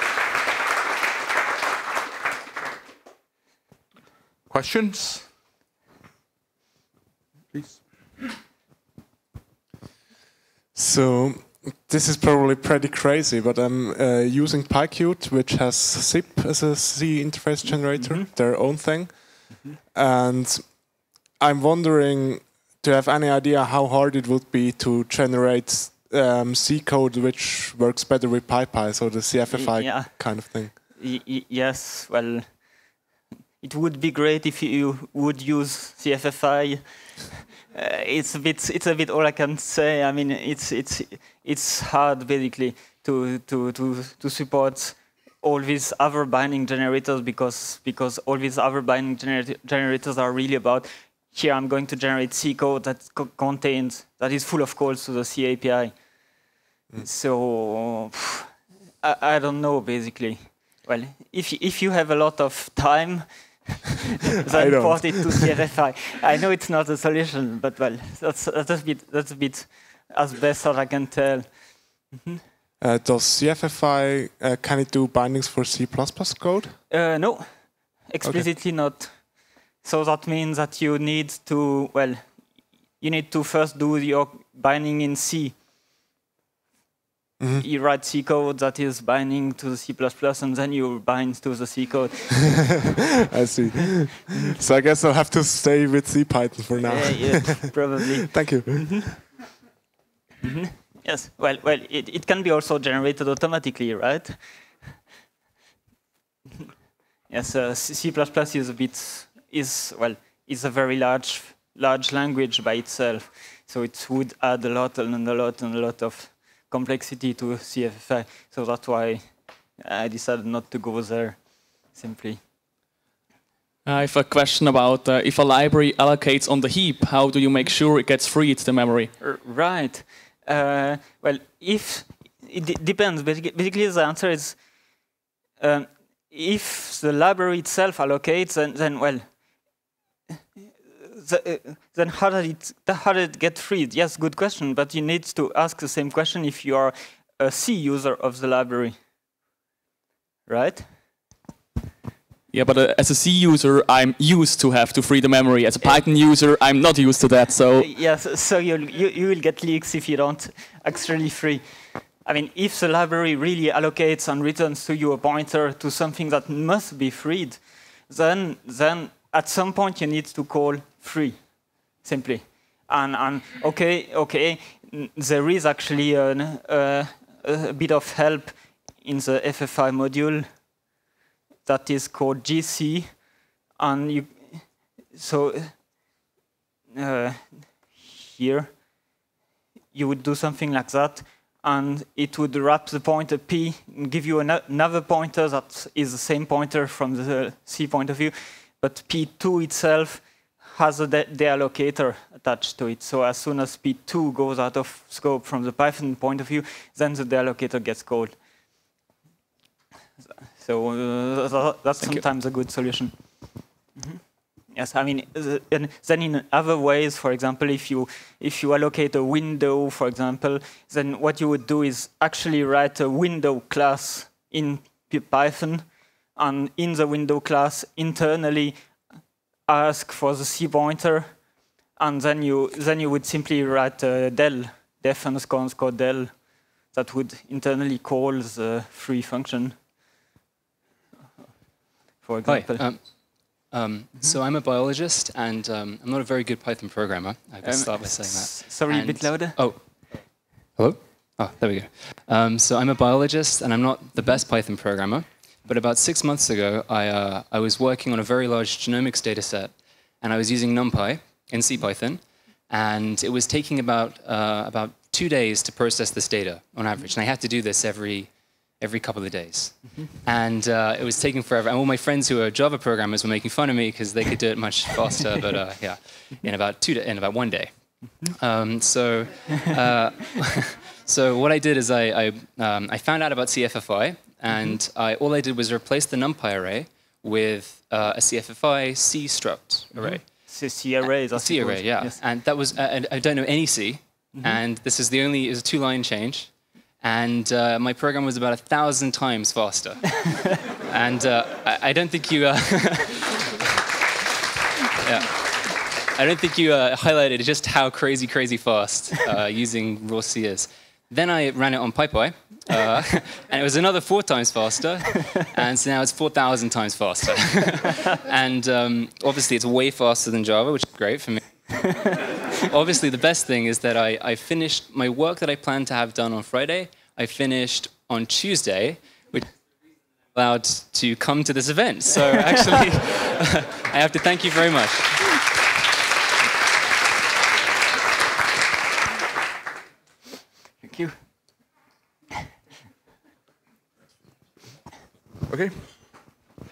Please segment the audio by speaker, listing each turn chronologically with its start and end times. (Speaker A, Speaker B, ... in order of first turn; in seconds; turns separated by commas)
Speaker A: 4.5-5.2, Speaker A: 7.5-8.4, Speaker B: 10.7-30.7, Speaker C: 17.6-18.3, Speaker C: 29.5-32.8, Speaker C: 33.6-56.0, Speaker C: 57.0-58.5, Speaker C: 59.0-72.4, Speaker B: 64.5-65.5, Speaker B: 72.8-76.8, Speaker C: 76.9-85.5, Speaker B: 78.2-78.5, Speaker B: 87.4-87.6, Speaker C: 87.6-93.0, Speaker B: 93.3-99.2, Speaker C: 96.8-99.2, Speaker C: 100.4-104.7, Speaker C: 107.3-122.4, Speaker D: 123.8-129.1, Speaker C: 129.2-134.9, Speaker C: 135.6-139.4, Speaker C: 141.0-149.0, Speaker C: 150.5-150.9, Speaker D: 152.5-157.9, Speaker C: 157.8-180.5, Speaker C: 181.6-183.2, Speaker C: 183.8-185.8, Speaker C: 186.9-188.8, Speaker C: 189.9-208.4, Speaker C: 210.6-228.9, Speaker C: 229.7-239.7, Speaker C: 242.2-242.8, Speaker E: 242.5-290.5, Speaker C: 247.6-249.6, Speaker C: 289.9-292.2, Speaker E: 291.0-303.6, Speaker E: 305.0-329.5, Speaker E: 330.3-335.5, Speaker C: 340.8-341.2, Speaker A: 345.5-346.1